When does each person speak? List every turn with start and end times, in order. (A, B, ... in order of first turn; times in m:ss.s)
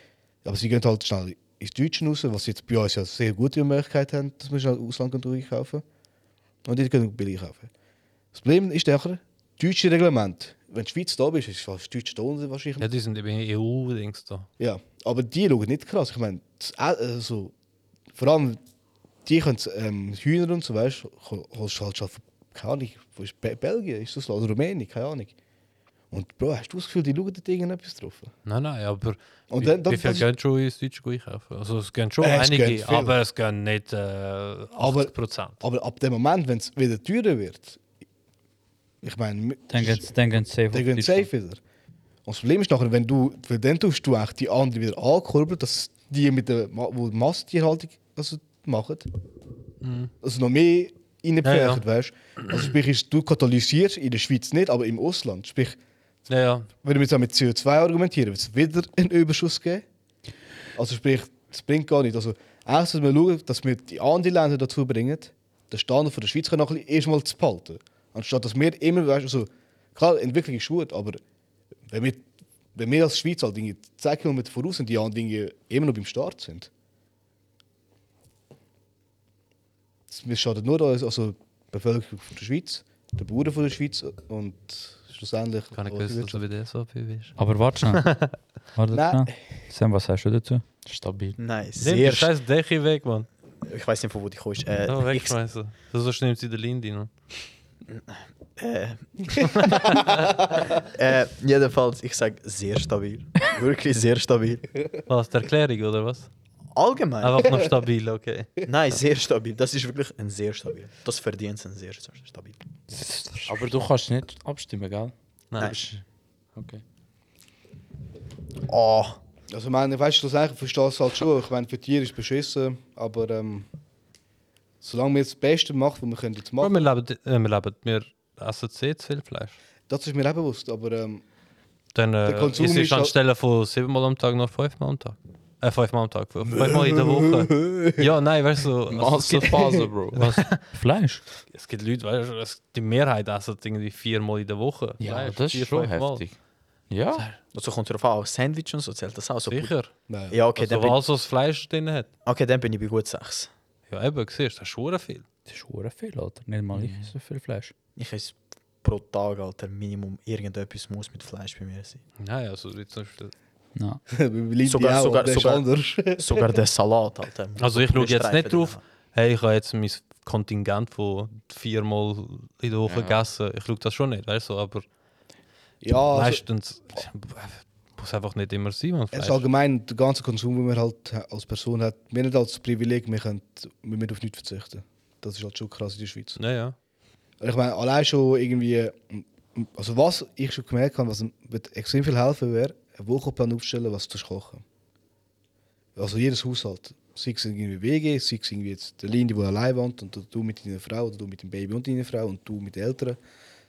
0:00.4-0:05.8 A
0:06.6-0:07.7 A
0:08.3-0:12.9 A
0:12.8-0:14.5 B
0:14.6-0:17.5 A
0:18.1-0:18.6 A
0:19.2-0:25.3 A
0:26.1-0:28.3 A
0:28.4-0:35.6 B
0:29.5-0:30.3 A
0:32.2-0:33.2 A
0:34.8-0:37.8 A
0:39.0-0:40.1 A
0:39.7-0:41.3 C
0:40.7-0:41.6 A
0:42.2-0:49.1 A
0:49.8-0:50.1 B
0:50.2-0:55.8 A
0:51.4-0:51.8 B
0:56.3-0:56.7 B
0:56.8-0:59.8 A
1:00.7-1:11.2 A
1:11.9-1:16.7 A
1:20.1-1:26.4 A
1:25.7-1:28.3 B
1:27.4-1:28.1 C
1:28.7-1:30.6 C
1:28.9-1:29.3 A
1:30.8-1:31.4 D
1:31.4-1:32.3 E
1:31.8-1:33.3 B
1:33.6-1:35.4 E
1:34.8-1:37.1 B
1:37.9-1:40.1 E
1:39.4-1:40.4 B
1:40.6-1:44.8 E
1:45.1-1:46.3 B
1:46.7-1:47.7 E
1:47.2-1:48.6 B
1:48.6-1:52.6 E
1:52.9-1:53.5 C
1:53.5-1:56.0 D
1:55.5-1:56.0 B
1:56.6-1:56.8 D
1:58.7-1:59.2 E
1:59.5-2:03.7 A
2:04.8-2:06.9 A
2:06.6-2:09.6 B
2:09.9-2:11.2 A
2:11.9-2:20.6 B
2:12.2-2:13.1 A
2:16.4-2:18.1 A
2:18.9-2:20.2 D
2:20.1-2:21.2 C
2:21.5-2:26.2 B
2:25.0-2:26.4 D
2:26.9-2:27.2 D
2:27.1-2:27.4 B
2:27.5-2:29.8 E
2:29.4-2:29.9 B
2:30.1-2:30.4 A
2:30.3-2:31.0 E
2:30.5-2:32.1 B
2:32.2-2:33.5 E
2:33.9-2:35.2 B
2:35.5-2:37.7 C
2:36.7-2:37.1 D
2:38.0-2:42.0 E
2:42.2-2:43.3 B
2:43.8-2:44.0 C
2:44.1-2:46.5 A
2:44.6-2:45.6 E
2:46.2-2:48.8 E
2:47.6-2:54.8 B
2:52.8-2:53.2 D
2:55.8-2:56.4 A
2:56.1-2:59.4 B
2:59.1-3:06.4 A
3:06.4-3:06.8 B
3:07.4-3:14.6 A
3:16.0-3:23.2 A